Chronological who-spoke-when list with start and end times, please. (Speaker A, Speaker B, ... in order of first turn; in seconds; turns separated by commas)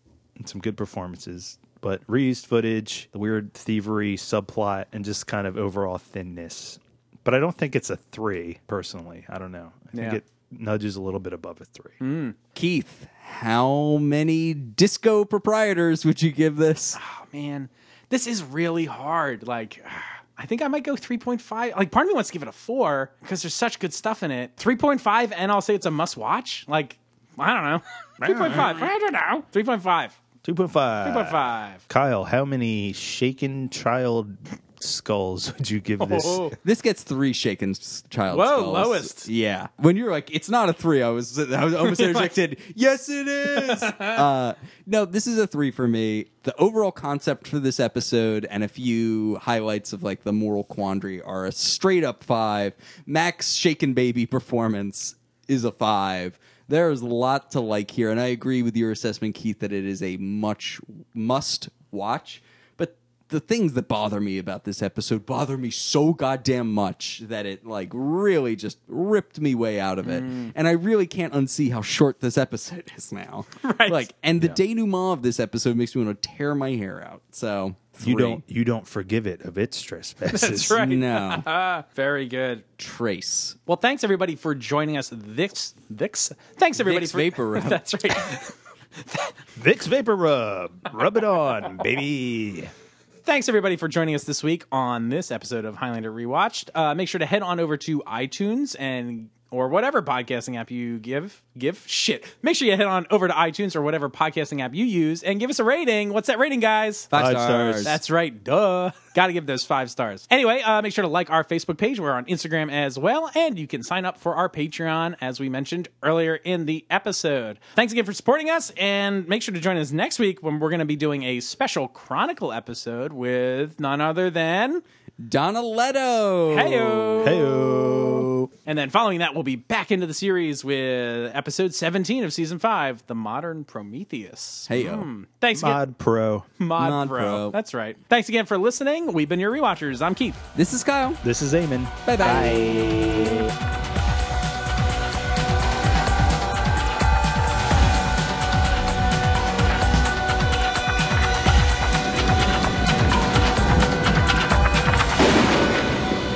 Speaker A: 0.4-12.0, Speaker B: 9.9-10.2, Speaker B: 12.0-12.3, Speaker C: 12.5-17.0, Speaker B: 16.9-30.2, Speaker A: 28.2-28.9, Speaker A: 30.4-36.5, Speaker B: 31.0-31.8, Speaker B: 36.0-36.5, Speaker C: 36.6-78.4, Speaker B: 38.3-39.3, Speaker B: 41.8-42.3, Speaker B: 43.5-44.2, Speaker B: 70.0-70.5, Speaker B: 73.6-74.1, Speaker A: 78.0-80.8, Speaker B: 80.3-82.6, Speaker C: 80.7-81.5, Speaker C: 82.8-83.6, Speaker B: 83.7-89.3, Speaker C: 86.8-88.2, Speaker A: 89.5-92.7, Speaker B: 93.2-107.1, Speaker C: 107.1-108.0, Speaker A: 107.1-107.9, Speaker B: 107.8-124.8, Speaker C: 125.2-128.1, Speaker B: 126.5-127.9, Speaker A: 127.2-128.5, Speaker B: 128.7-135.8, Speaker C: 134.7-135.1, Speaker A: 135.5-136.5, Speaker B: 136.6-140.4, Speaker C: 136.8-137.6, Speaker C: 140.5-141.2, Speaker A: 141.2-143.5, Speaker C: 142.0-143.4